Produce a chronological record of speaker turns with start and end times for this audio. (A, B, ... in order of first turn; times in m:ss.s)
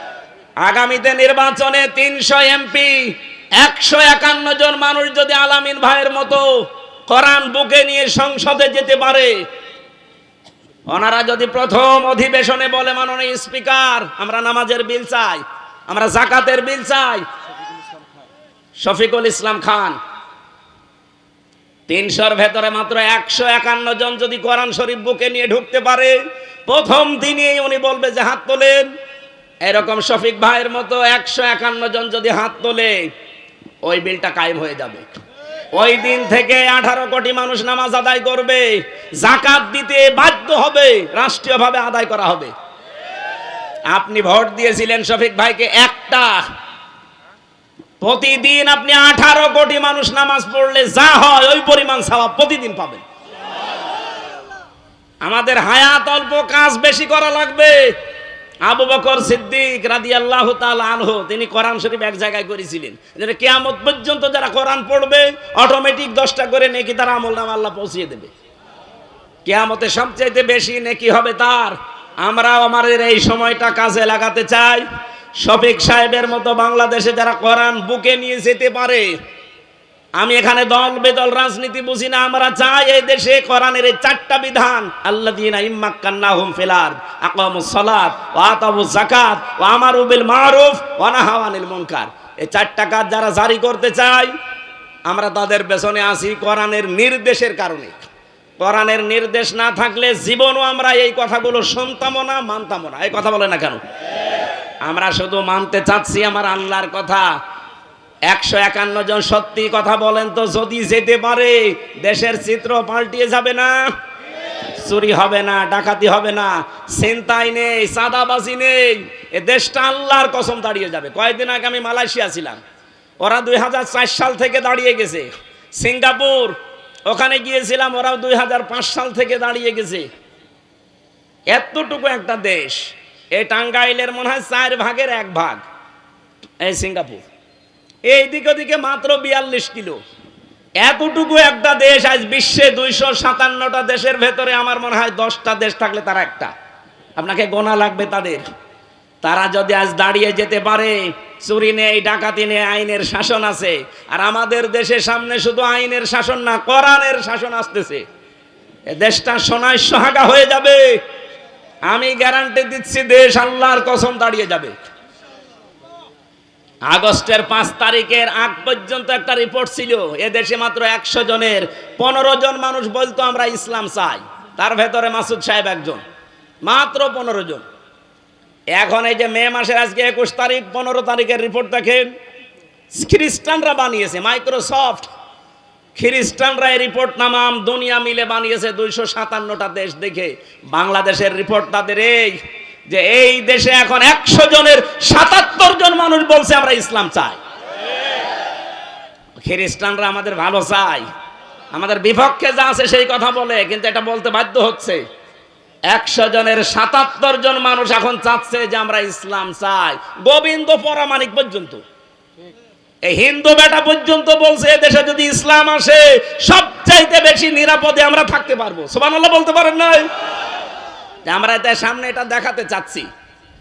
0:00.6-0:06.5 A
0:07.1-0:09.4 A
0:10.9-0:17.2 A
0:18.8-0:20.0 A
0:21.9-0:28.9 A
0:29.6-0:33.1 A
0:33.8-0:35.1 A
0:35.8-0:42.5 A
0:43.9-0:46.4 A
0:48.0-0:53.0 A
0:55.2-0:57.9 A
0:58.6-1:08.3 A
1:09.4-1:14.8 A
1:15.4-1:19.1 A
1:20.2-1:34.3 A
1:35.1-1:38.0 A
1:38.6-1:43.8 A
1:44.8-1:47.3 A
1:48.3-1:53.9 A
1:54.7-2:02.6 A
2:03.2-2:10.1 A
2:11.5-2:15.6 A
2:16.6-2:17.2 A
2:18.1-2:20.0 A
2:20.8-2:26.5 A
2:27.2-2:28.4 A
2:29.2-2:38.0 A
2:38.9-2:41.0 A
2:41.9-2:44.8 A
2:46.9-2:56.0 A
2:56.6-2:57.6 A
2:58.7-3:02.1 A
3:02.9-3:05.1 A
3:06.0-3:17.4 A
3:19.4-3:21.1 A
3:21.7-3:25.0 A
3:25.9-3:31.8 A
3:33.0-3:40.1 A
3:41.3-3:43.1 A